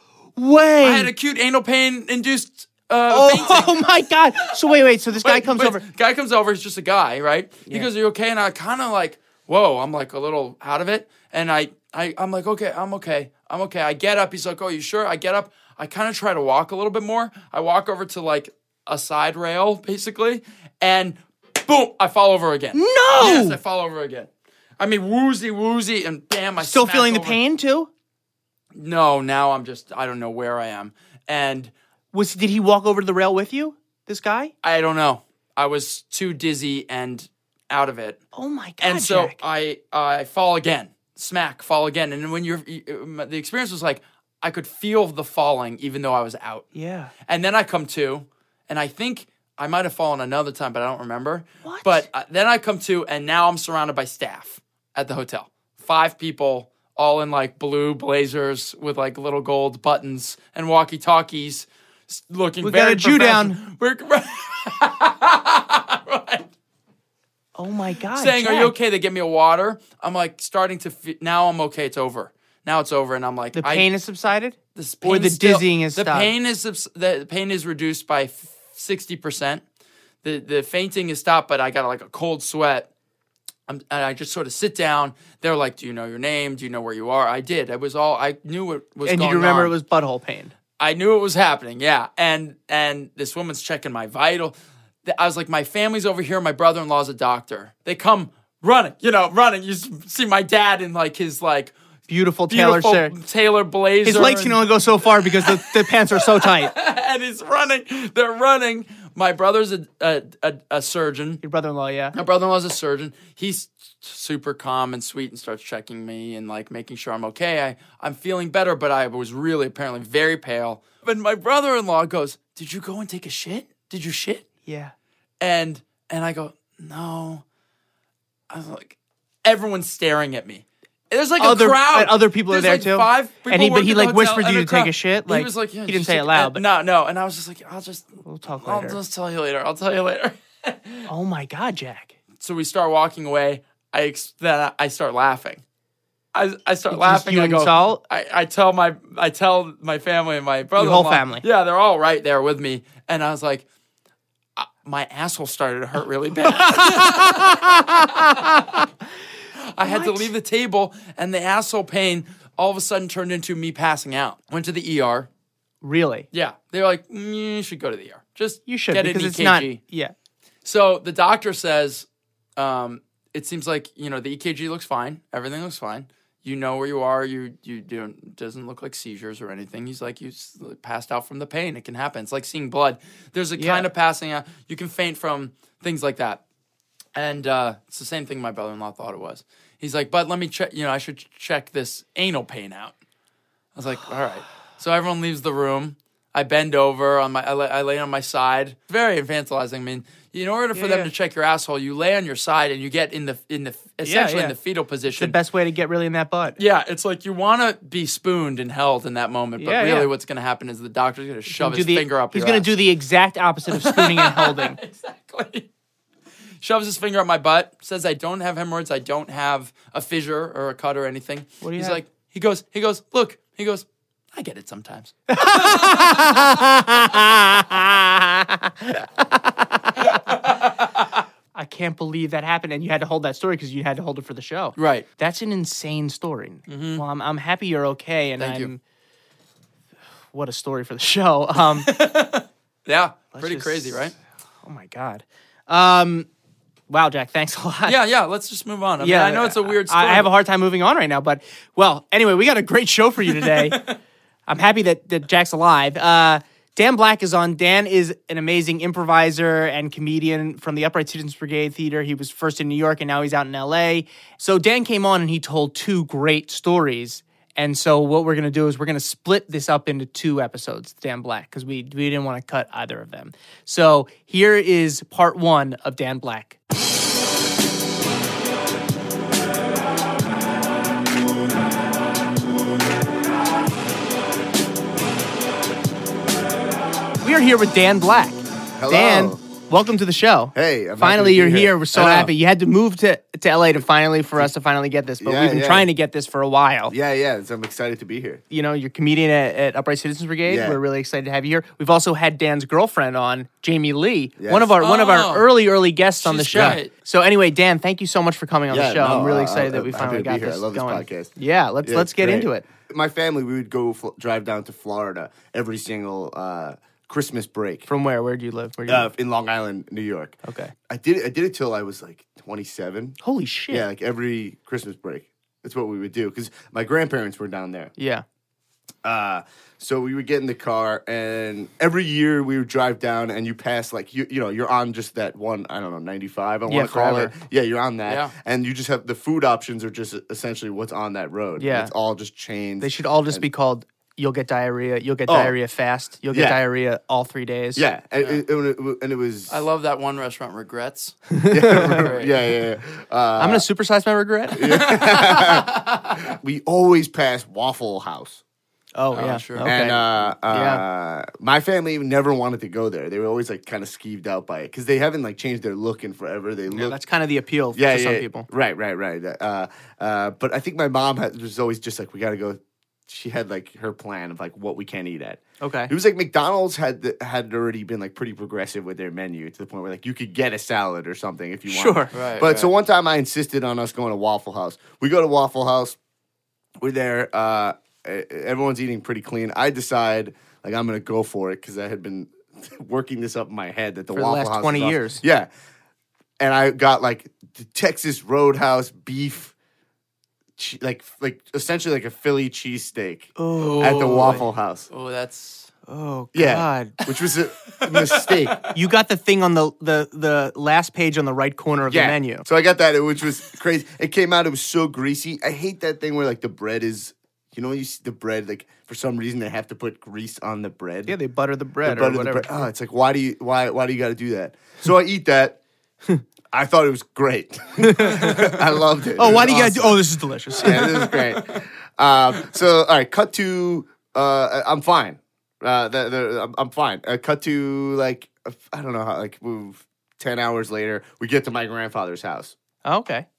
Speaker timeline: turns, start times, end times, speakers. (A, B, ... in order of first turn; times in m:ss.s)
0:00.4-0:01.1 A
0:00.8-0:03.9 B
0:03.1-0:05.8 A
0:05.2-0:27.4 B
0:22.7-0:23.6 A
0:26.6-0:27.9 A
0:28.8-0:31.7 B
0:32.1-0:34.5 A
0:34.6-0:38.2 B
0:38.3-0:39.4 A
0:38.8-0:46.7 B
0:46.8-0:47.1 A
0:47.3-1:06.5 B
0:51.6-0:52.1 A
1:02.6-1:03.6 A
1:07.6-1:08.8 A
1:08.1-1:13.9 B
1:13.6-1:16.3 A
1:14.8-1:19.6 B
1:20.2-1:22.9 B
1:23.7-1:29.7 B
1:29.0-1:30.5 A
1:30.8-1:41.7 B
1:42.1-1:43.1 A
1:42.5-1:51.4 B
1:44.0-1:46.7 A
1:51.4-1:52.2 A
1:52.1-2:04.5 B
2:04.7-2:04.9 A
2:05.4-2:07.4 B
2:08.5-2:21.1 B
2:11.4-2:16.6 A
2:18.2-2:19.0 A
2:21.1-2:22.2 A
2:22.4-2:25.6 B
2:26.3-2:33.6 B
2:26.9-2:28.0 A
2:30.8-2:31.4 A
2:34.6-2:38.8 B
2:36.4-2:38.6 A
2:39.6-2:45.3 B
2:39.9-2:40.3 A
2:45.8-2:46.3 A
2:46.3-2:49.8 B
2:48.7-2:50.1 A
2:50.6-2:52.1 B
2:52.6-3:06.4 B
3:03.6-3:03.9 A
3:07.2-3:12.9 B
3:13.8-3:25.3 B
3:20.7-3:21.1 A
3:24.0-3:24.6 A
3:25.1-3:26.6 A
3:26.6-3:32.8 B
3:29.6-3:30.1 A
3:31.5-3:34.8 A
3:33.7-3:35.7 B
3:36.6-3:46.0 B
3:41.6-3:42.0 A
3:45.3-3:50.2 A
3:50.0-3:50.9 B
3:51.6-3:58.8 A
3:54.8-3:55.1 B
3:56.7-3:57.0 B
3:58.4-3:58.7 B
4:00.3-4:01.9 A
4:01.7-4:04.1 B
4:03.4-4:04.1 A
4:04.6-4:06.3 A
4:06.9-4:08.0 A
4:07.9-4:10.3 B
4:09.0-4:13.8 A
4:13.5-4:13.9 B
4:14.5-4:36.6 A
4:47.2-4:56.9 A
4:48.8-4:49.4 C
4:50.6-4:52.3 C
4:55.2-4:55.9 C
4:56.9-4:58.4 C
4:58.5-5:12.6 A
5:00.5-5:00.8 C
5:04.4-5:04.8 C
5:04.8-5:05.5 B
5:06.2-5:06.9 B
5:06.5-5:06.8 C
5:08.7-5:11.3 C
5:11.8-5:17.9 C
5:17.9-5:19.1 A
5:18.9-5:20.4 C
5:20.4-5:20.7 A
5:20.9-5:23.2 C
5:23.2-5:23.9 A
5:23.7-5:27.9 C
5:28.0-5:28.2 A
5:29.0-5:43.5 C
5:36.7-5:37.3 A
5:38.1-5:38.3 B
5:41.6-5:41.9 A
5:42.8-5:47.8 A
5:45.3-5:45.6 C
5:46.3-5:46.6 C
5:47.8-5:49.6 C
5:49.5-5:52.4 B
5:51.4-5:52.0 A
5:51.5-5:53.7 C
5:53.4-5:54.9 A
5:54.5-5:58.4 C
5:54.7-5:55.8 B
5:59.0-6:00.8 A
5:59.1-5:59.7 B
5:59.6-6:07.0 C
6:06.7-6:08.5 A
6:07.8-6:26.0 C
6:15.6-6:15.9 A
6:21.7-6:22.1 A
6:22.1-6:22.7 B
6:26.8-6:35.5 C
6:34.1-6:35.2 A
6:36.4-6:39.5 C
6:40.6-6:44.9 C
6:43.4-6:44.4 A
6:43.6-6:45.7 B
6:45.9-6:47.0 A
6:46.3-6:48.6 C
6:47.8-6:48.7 B
6:48.7-6:52.5 A
6:51.9-7:01.2 C
7:01.1-7:02.7 A
7:01.8-7:05.6 C
7:06.5-7:10.0 C
7:07.8-7:11.3 A
7:10.6-7:22.6 C
7:22.8-7:23.3 A